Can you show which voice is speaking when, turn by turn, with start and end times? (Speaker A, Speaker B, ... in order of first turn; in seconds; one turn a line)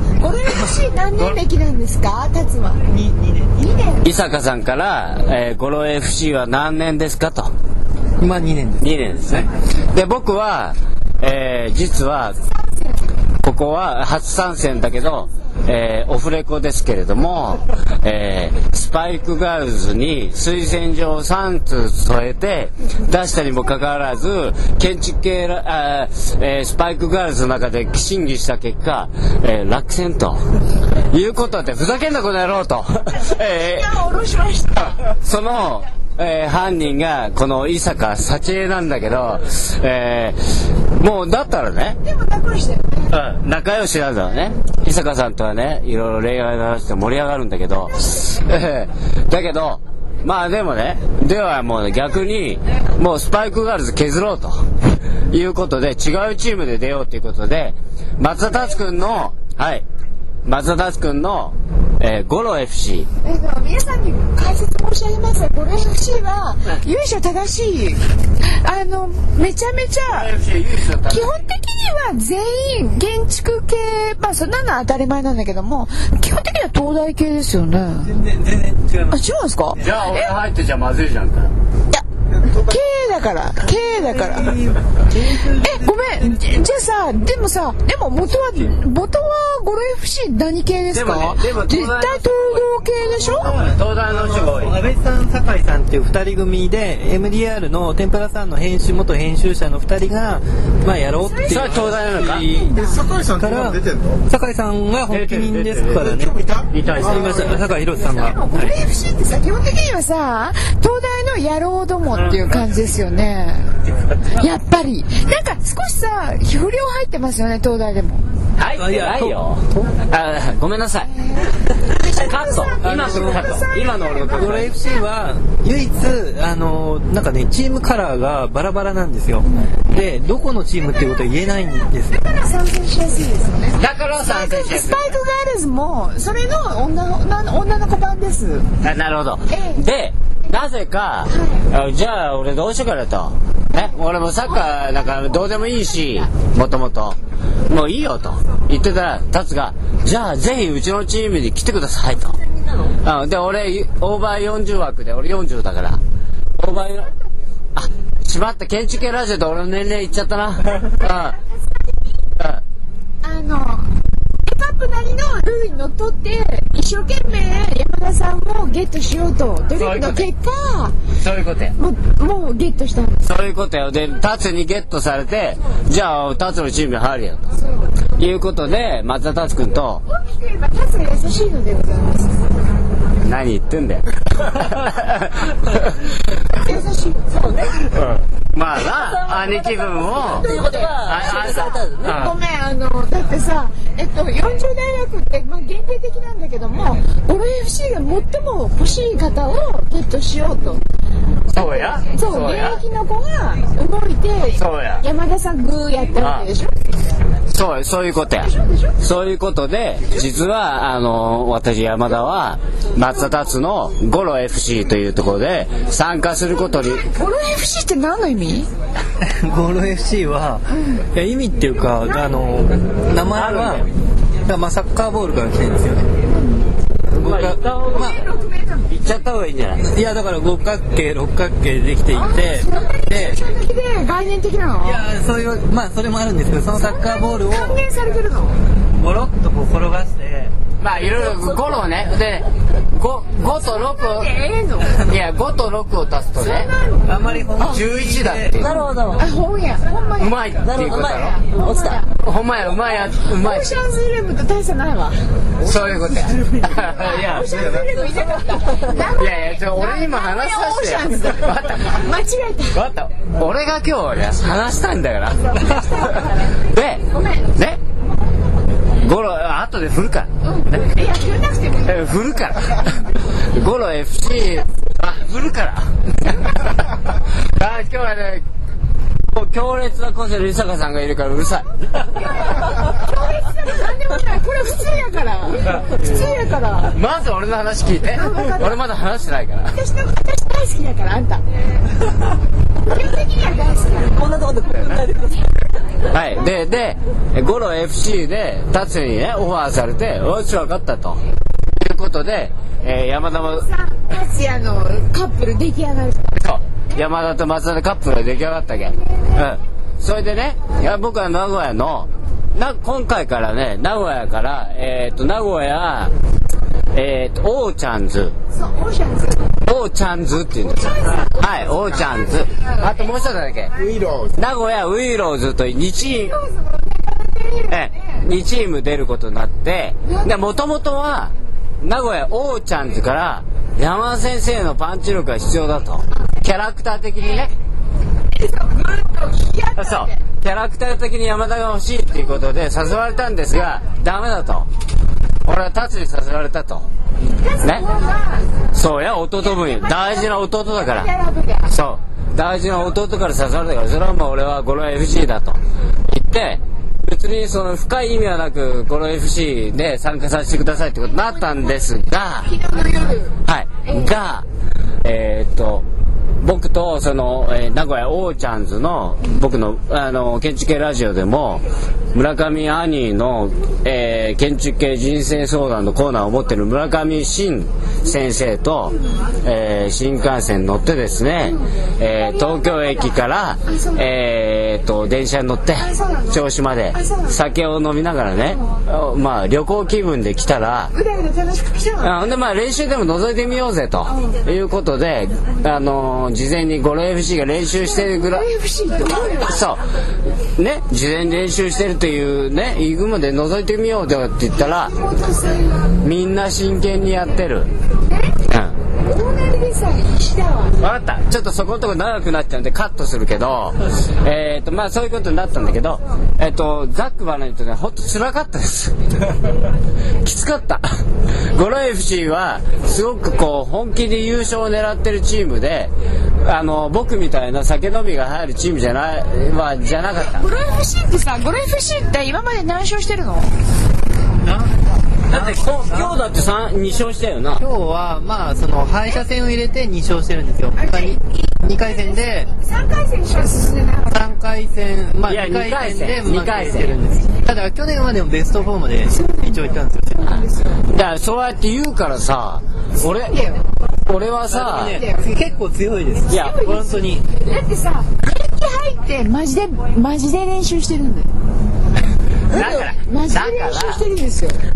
Speaker A: 0.2-2.9
Speaker B: 2.9-3.5
Speaker A: 3.5-4.1
Speaker C: 4.0-7.5
Speaker B: 8.2-8.9
Speaker C: 8.8-12.4
Speaker A: 12.5-13.0
Speaker C: 13.4-30.4
Speaker C: 31.1-33.9
Speaker A: 33.2-35.0
Speaker C: 35.0-40.4
Speaker C: 41.0-42.0
Speaker A: 42.0-43.1
Speaker C: 43.1-54.6
Speaker C: 55.3-59.9
Speaker A: 58.4-58.8
Speaker C: 60.5-63.1
Speaker A: 63.2-70.3
Speaker C: 70.1-71.3
Speaker A: 71.1-78.1
Speaker B: 78.0-79.2
Speaker A: 79.1-80.3
Speaker C: 79.8-81.5
Speaker A: 81.9-84.6
Speaker B: 83.7-86.6
Speaker A: 85.6-93.5
Speaker C: 90.9-92.7
Speaker B: 93.2-102.8
Speaker C: 93.4-94.8
Speaker A: 101.2-103.0
Speaker C: 101.5-102.5
Speaker D: 102.8-104.2
Speaker B: 103.4-106.4
Speaker C: 105.1-106.0
Speaker D: 106.1-107.0
Speaker C: 106.7-107.6
Speaker B: 107.0-108.8
Speaker A: 108.0-113.7
Speaker C: 112.2-112.6
Speaker A: 114.3-118.2
Speaker C: 118.6-121.1
Speaker B: 118.8-119.9
Speaker A: 121.0-125.0
Speaker C: 122.0-124.7
Speaker B: 122.8-123.5
Speaker B: 124.3-132.2
Speaker A: 132.1-138.7
Speaker C: 133.8-135.2
Speaker C: 138.8-147.2
Speaker A: 139.5-139.8
Speaker A: 141.3-141.6
Speaker C: 147.7-152.4
Speaker C: 153.0-156.0
Speaker C: 156.6-157.1
Speaker C: 157.8-161.4
Speaker A: 160.9-161.6
Speaker A: 163.2-170.9
Speaker C: 169.8-170.3
Speaker C: 171.2-171.8
Speaker A: 171.8-173.2
Speaker C: 173.2-177.4
Speaker A: 177.6-177.9
Speaker C: 178.2-180.0
Speaker A: 180.1-182.4
Speaker C: 183.2-186.0
Speaker A: 186.5-188.0
Speaker C: 187.9-190.5
Speaker E: 188.9-192.3
Speaker A: 189.5-200.8
Speaker C: 191.1-192.3
Speaker C: 201.5-202.8
Speaker A: 201.5-206.7
Speaker C: 204.6-205.0
Speaker C: 206.2-206.5
Speaker C: 207.5-217.0
Speaker A: 208.4-209.0
Speaker A: 216.8-218.7
Speaker B: 219.2-223.9
Speaker C: 223.3-223.9
Speaker B: 224.5-226.1
Speaker B: 227.1-228.2
Speaker C: 227.2-228.2
Speaker A: 227.9-228.9
Speaker C: 228.9-229.8
Speaker B: 229.8-232.7
Speaker A: 232.2-235.0
Speaker B: 234.8-237.8
Speaker A: 236.8-238.6
Speaker B: 239.0-240.5
Speaker C: 240.8-244.3
Speaker A: 241.2-241.6
Speaker A: 243.6-245.0
Speaker C: 245.1-246.7
Speaker A: 246.4-247.8
Speaker B: 247.1-248.7
Speaker C: 247.6-248.8
Speaker E: 248.6-249.3
Speaker A: 249.2-252.1
Speaker C: 250.2-251.4
Speaker E: 250.6-252.0
Speaker C: 252.2-253.7
Speaker A: 253.2-255.2
Speaker C: 255.6-257.8
Speaker A: 257.0-262.8
Speaker C: 259.0-262.1
Speaker C: 262.7-267.8
Speaker A: 265.6-266.5
Speaker A: 267.1-267.5
Speaker C: 269.0-270.9
Speaker A: 270.4-272.0
Speaker C: 271.8-275.9
Speaker C: 277.6-278.4
Speaker C: 279.3-281.7
Speaker A: 282.2-287.0
Speaker C: 286.9-289.8
Speaker A: 288.1-288.8
Speaker A: 289.7-291.4
Speaker A: 292.9-294.2
Speaker E: 294.1-295.4
Speaker C: 296.1-301.2
Speaker C: 301.8-303.6
Speaker A: 303.4-306.4
Speaker C: 306.4-316.1
Speaker C: 316.9-318.4
Speaker A: 318.5-319.5
Speaker C: 319.6-323.7
Speaker A: 320.7-321.8
Speaker D: 323.7-324.4
Speaker C: 324.4-326.3
Speaker A: 326.0-328.2
Speaker C: 327.7-337.5
Speaker A: 330.1-330.3
Speaker A: 338.3-340.2
Speaker C: 339.8-344.7
Speaker C: 345.4-346.9
Speaker A: 347.4-348.5
Speaker C: 348.7-351.1
Speaker A: 349.4-351.7
Speaker C: 351.7-362.5
Speaker A: 361.3-361.8
Speaker A: 362.4-364.1
Speaker C: 363.5-364.4
Speaker C: 365.0-365.9
Speaker C: 366.4-371.6
Speaker C: 372.1-390.9
Speaker A: 381.4-383.2
Speaker A: 383.7-384.1
Speaker A: 385.8-387.4
Speaker A: 390.9-392.1
Speaker C: 392.0-398.5
Speaker A: 394.1-394.4
Speaker A: 397.9-399.6
Speaker C: 399.4-399.8
Speaker C: 400.6-404.9
Speaker A: 404.6-405.9
Speaker C: 406.0-407.7
Speaker A: 408.1-408.4
Speaker C: 408.5-408.7
Speaker A: 409.1-410.8
Speaker C: 410.8-419.4
Speaker C: 420.2-420.9
Speaker C: 421.5-425.9
Speaker C: 426.4-430.5
Speaker A: 430.2-433.5
Speaker B: 434.4-436.2
Speaker C: 435.3-437.6
Speaker B: 437.6-442.5
Speaker A: 440.8-444.3
Speaker B: 444.1-450.3
Speaker C: 445.3-447.0
Speaker A: 449.1-450.9
Speaker C: 450.9-453.4
Speaker A: 453.1-453.6
Speaker C: 454.1-455.0
Speaker B: 454.5-457.3
Speaker A: 454.8-455.4
Speaker A: 456.3-461.3
Speaker C: 456.3-456.6
Speaker E: 462.5-462.9
Speaker C: 462.5-464.0
Speaker A: 462.9-464.6